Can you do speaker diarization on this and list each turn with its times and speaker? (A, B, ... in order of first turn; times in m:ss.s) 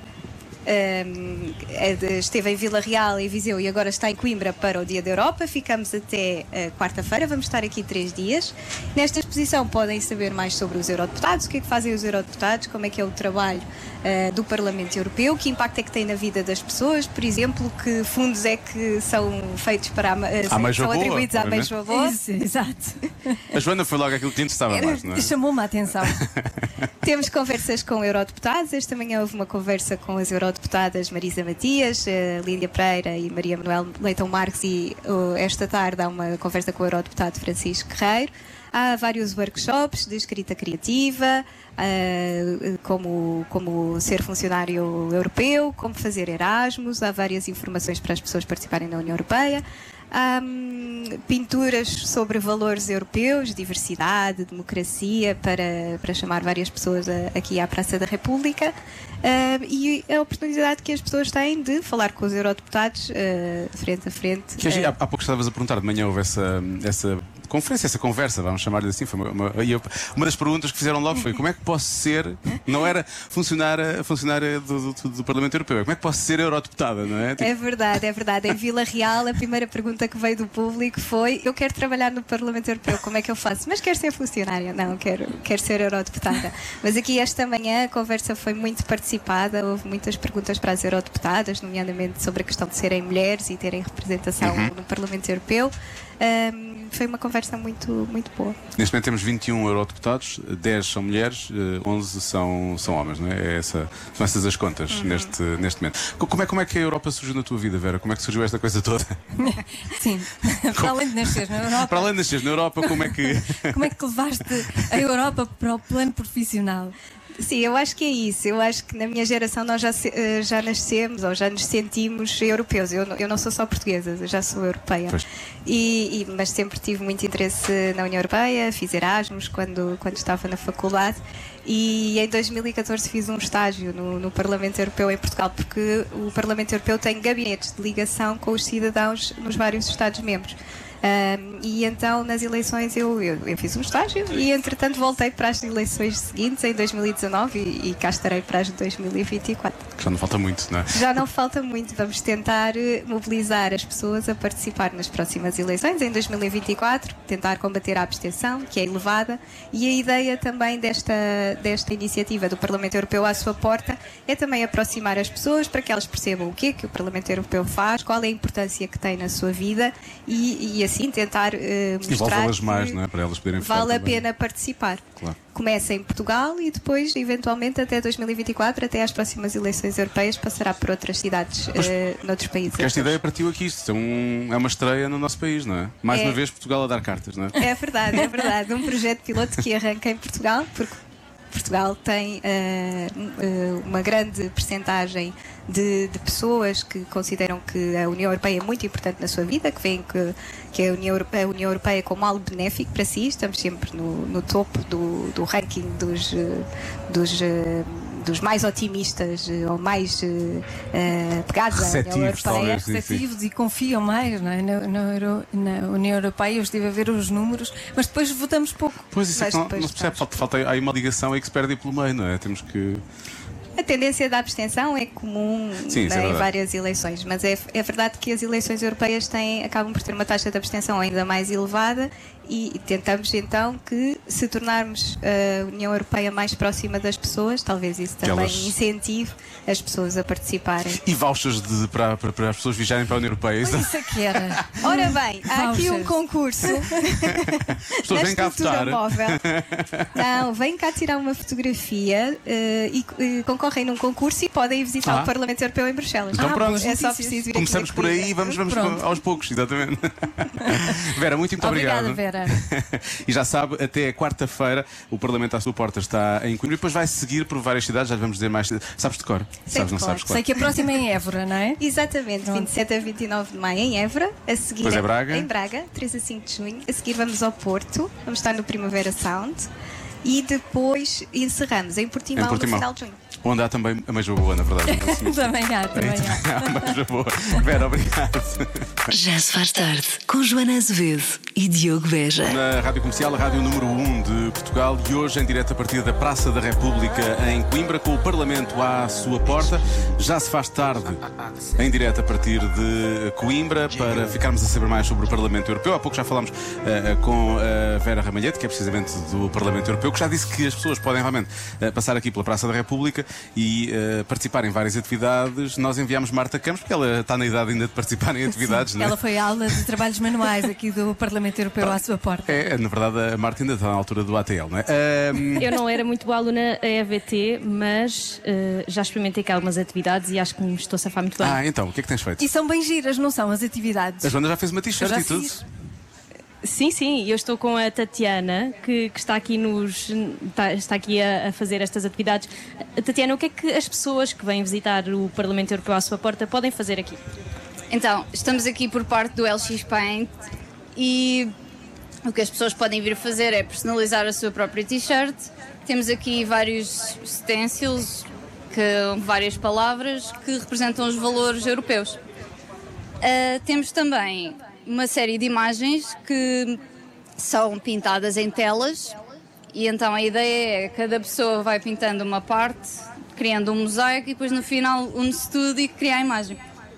0:00.6-0:22.2 A
0:20.5-0:21.7 B
0:21.9-0:23.4 C
0:23.5-0:25.3 B
0:24.7-0:26.2 C
0:26.0-0:26.7 B
0:27.0-1:04.9 A
1:04.6-1:17.5 B
1:17.4-1:38.6 A
1:34.4-1:34.7 B
1:38.8-1:49.2 B
1:44.9-1:45.3 A
1:49.4-1:52.2 C
1:50.7-1:53.7 B
1:52.8-1:56.9 C
1:57.4-2:29.8 A
2:30.0-2:31.0 B
2:30.9-2:53.0 A
2:52.1-2:54.2 B
2:53.6-3:03.2 A
3:02.7-3:07.6 B
3:06.1-3:06.4 A
3:07.6-3:11.0 A
3:11.5-3:32.8 A
3:31.7-3:33.2 B
3:32.4-3:39.1 C
3:39.1-3:43.0 B
3:39.3-3:40.2 A
3:43.8-4:01.0 A
3:45.9-3:46.5 B
3:58.2-3:58.7 B
4:00.9-4:05.1 B
4:03.6-4:07.6 C
4:04.8-4:07.5 A
4:07.4-4:10.1 B
4:08.1-4:09.4 A
4:10.1-4:18.5 A
4:15.0-4:15.3 B
4:16.3-4:16.9 B
4:16.4-4:17.4 C
4:17.5-4:30.5 B
4:18.6-4:19.0 C
4:21.6-4:22.6 C
4:29.7-4:30.9 A
4:30.3-4:31.8 C
4:31.8-4:39.7 A
4:34.8-4:35.5 B
4:40.2-4:43.2 A
4:42.4-4:42.9 B
4:43.4-4:49.1 B
4:44.8-4:46.9 C
4:49.1-4:52.6 D
4:52.4-5:19.2 B
5:18.6-5:22.6 C
5:21.8-5:25.7 B
5:25.6-5:31.6 E
5:31.4-5:32.4 B
5:32.4-5:34.3 C
5:34.2-5:35.6 B
5:35.0-5:35.6 C
5:36.6-5:47.2 E
5:47.9-5:50.3 F
5:50.9-5:51.5 F
5:52.2-6:02.2 F
6:03.2-6:06.8 F
6:07.4-6:09.2 F
6:09.7-6:16.6 F